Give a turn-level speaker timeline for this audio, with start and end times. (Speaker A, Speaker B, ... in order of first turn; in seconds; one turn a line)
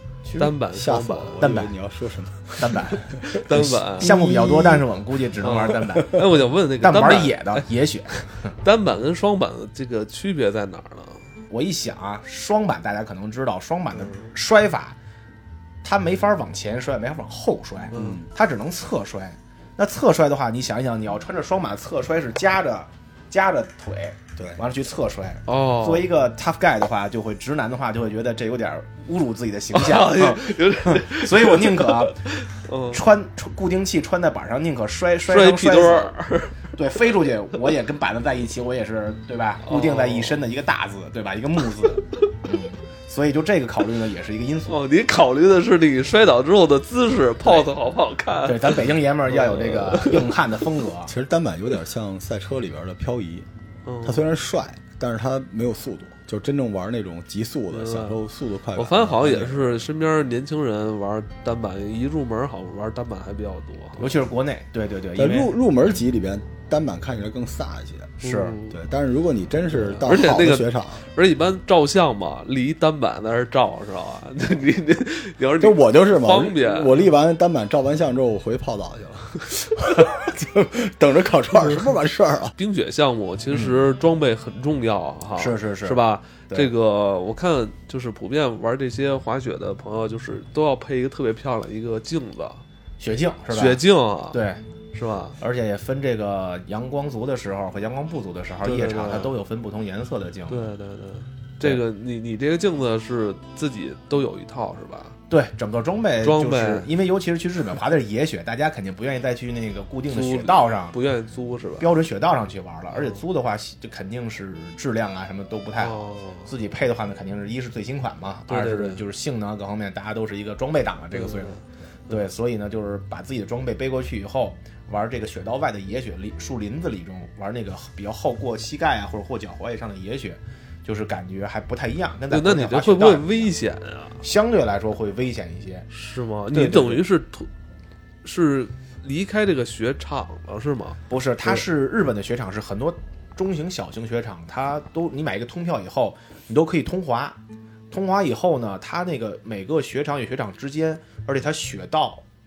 Speaker A: 0.2-0.5
Speaker B: 0.4-1.5
Speaker C: 0.6-4.8
Speaker A: 1.4-1.7
Speaker A: 2.6-3.2
Speaker B: 3.4-4.6
Speaker A: 4.0-6.2
Speaker B: 5.4-7.7
Speaker A: 6.8-8.6
Speaker B: 8.6-11.2
Speaker A: 11.5-15.0
Speaker A: 15.8-32.2
Speaker B: 17.9-18.2
Speaker C: 17.9-18.3
Speaker B: 25.5-26.1
Speaker B: 29.7-33.0
Speaker A: 32.9-36.1
Speaker B: 35.3-36.8
Speaker A: 36.7-44.8
Speaker B: 39.6-40.4
Speaker B: 44.7-50.4
Speaker A: 48.5-51.1
Speaker C: 51.1-53.5
Speaker B: 53.9-54.3
Speaker C: 54.0-59.7
Speaker B: 57.7-58.2
Speaker B: 58.8-64.2
Speaker A: 64.0-65.5
Speaker C: 65.2-71.1
Speaker B: 68.2-68.8
Speaker A: 68.2-68.6
Speaker B: 69.8-77.1
Speaker C: 75.6-82.5
Speaker B: 81.6-81.9
Speaker B: 82.6-92.6
Speaker A: 85.4-86.7
Speaker A: 93.0-93.8
Speaker B: 93.5-94.4
Speaker A: 94.3-94.6
Speaker B: 94.9-95.4
Speaker A: 95.4-100.7
Speaker B: 98.6-99.4
Speaker B: 100.5-105.2
Speaker A: 105.3-111.0
Speaker B: 106.2-106.9
Speaker B: 110.1-111.9
Speaker A: 111.8-133.5
Speaker B: 112.9-113.2
Speaker B: 115.8-116.5
Speaker B: 118.5-119.0
Speaker B: 121.1-121.6
Speaker B: 132.3-134.2
Speaker A: 134.2-135.9
Speaker B: 135.9-137.5
Speaker A: 136.5-137.1
Speaker B: 138.2-141.6
Speaker A: 141.1-147.4
Speaker A: 147.9-152.2